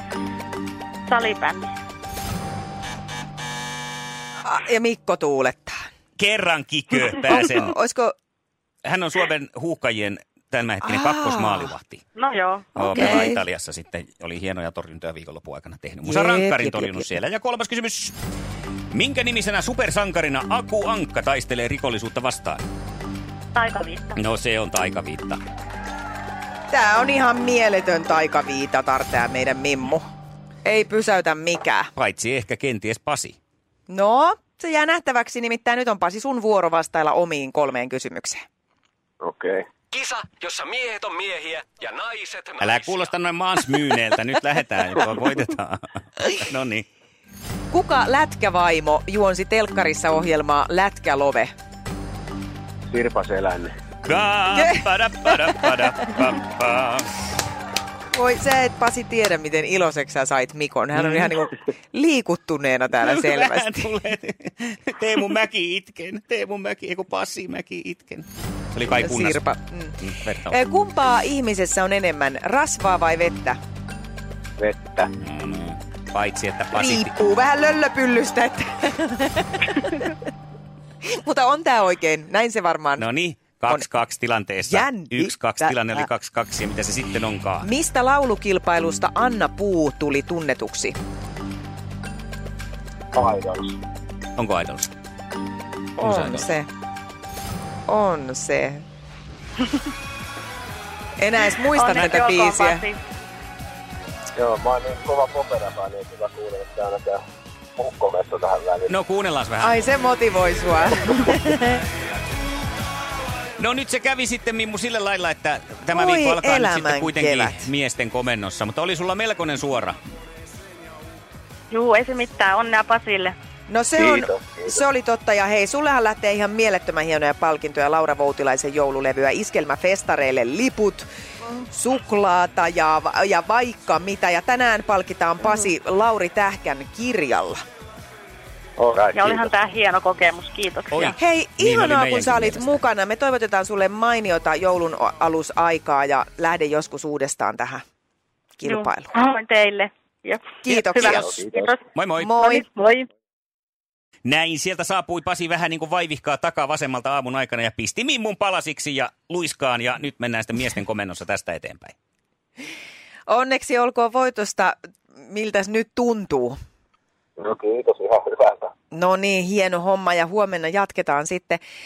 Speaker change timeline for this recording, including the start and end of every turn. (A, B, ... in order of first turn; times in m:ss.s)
0:01.1-0:01.7 A
0:04.4-0:05.9 B
0:06.2-0:07.8 C
0:07.3-0:08.2 B
0:08.8-0:12.0 C
0:10.8-0:11.7 B
0:12.2-0:13.3 A
0:12.8-0:18.2 C
0:12.8-0:13.4 B
0:16.1-0:17.1 B
0:18.9-0:22.6 C
0:23.6-0:24.2 A
0:24.2-0:25.4 C
0:26.7-0:30.1 B
0:30.6-0:31.9 B
0:32.0-0:33.4 C
0:33.9-0:38.4 B
0:39.2-0:39.7 D
0:39.9-0:43.1 E
0:42.6-0:46.9 C
0:47.7-0:51.5 B
0:52.9-0:53.7 D
0:54.0-0:57.2 C
0:54.5-0:56.2 B
0:58.1-1:03.9 B
1:01.0-1:01.4 C
1:03.0-1:09.4 C
1:08.9-1:13.6 B
1:10.0-1:10.6 C
1:14.6-1:15.1 D
1:15.2-1:17.1 C
1:16.7-1:20.2 B
1:21.1-1:23.1 B
1:23.0-1:27.7 C
1:24.7-1:26.1 B
1:27.6-1:31.0 B
1:33.1-1:33.8 D
1:34.4-1:34.9 C
1:36.0-1:36.5 C
1:36.0-1:36.7 B
1:37.9-1:38.8 B
1:41.2-1:42.8 B
1:41.7-1:43.0 A
1:44.4-1:47.2 D
1:47.8-1:48.9 D
1:48.9-1:49.9 C
1:49.6-1:51.8 B
1:53.6-2:00.0 C
1:55.9-1:57.7 B
2:01.7-2:03.4 A
2:03.7-2:17.6 B
2:04.0-2:04.8 D
2:18.8-2:19.5 D
2:19.1-2:21.2 A
2:20.9-2:22.8 C
2:21.2-2:27.8 B
2:28.6-2:29.1 B
2:28.6-2:33.1 A
2:30.6-2:31.4 B
2:31.0-2:31.7 D
2:32.0-2:32.3 C
2:32.2-2:32.7 B
2:34.2-2:42.0 C
2:43.3-2:46.6 B
2:47.4-2:48.7 D
2:48.9-2:51.6 B